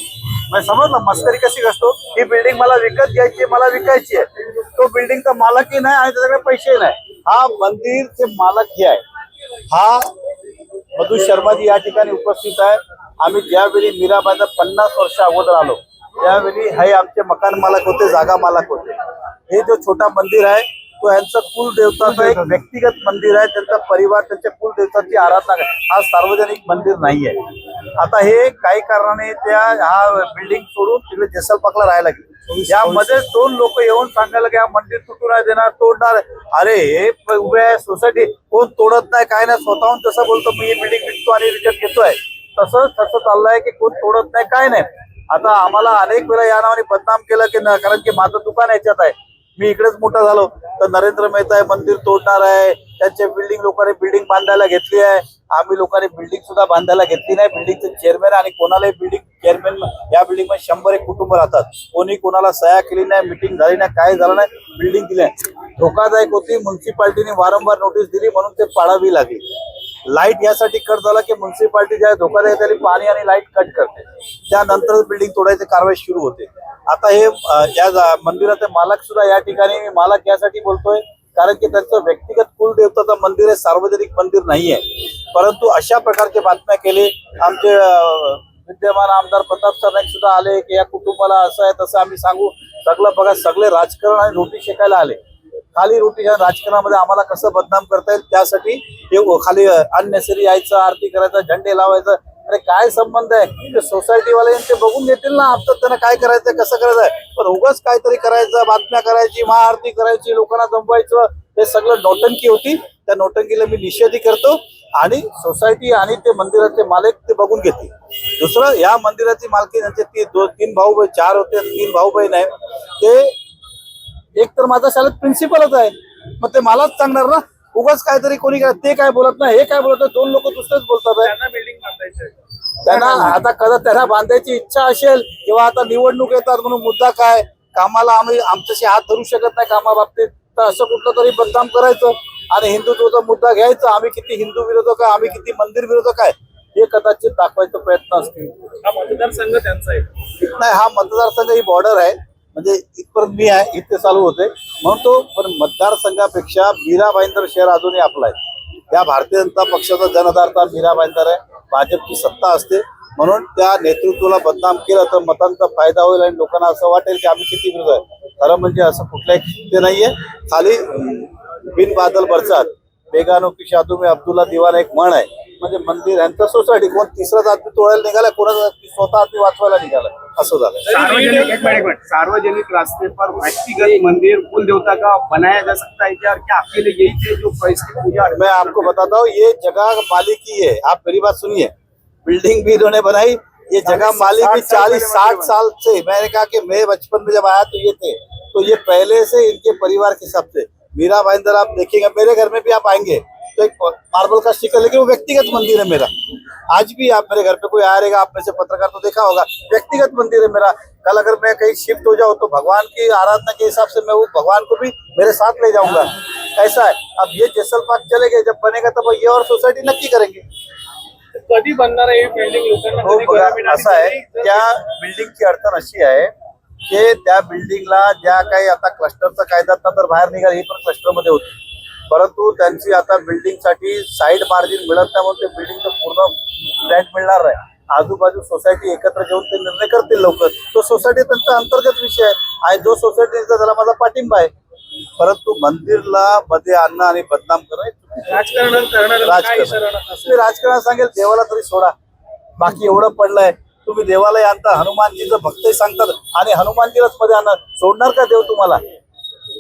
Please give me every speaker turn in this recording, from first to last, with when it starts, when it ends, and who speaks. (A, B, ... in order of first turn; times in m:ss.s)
0:00.5-0:09.0 A
0:09.7-0:10.1 A
0:11.0-0:19.0 A
0:19.5-1:09.4 A
1:10.1-1:35.2 A
1:35.8-2:03.4 A
2:04.4-2:11.3 A
2:11.2-2:13.3 B
2:12.8-2:28.8 A
2:28.8-2:30.1 B
2:30.4-2:38.4 A
2:38.9-3:00.9 A
3:00.9-3:01.8 B
3:00.9-3:09.0 C
3:08.3-3:11.7 A
3:12.2-3:26.1 A
3:13.8-3:15.6 C
3:26.7-3:40.4 A
3:41.3-3:44.7 B
3:43.0-3:46.3 A
3:46.8-3:51.6 A
3:52.1-4:04.5 A
4:05.2-4:08.4 A
4:08.2-4:10.4 B
4:09.2-4:11.9 A
4:12.6-4:18.8 A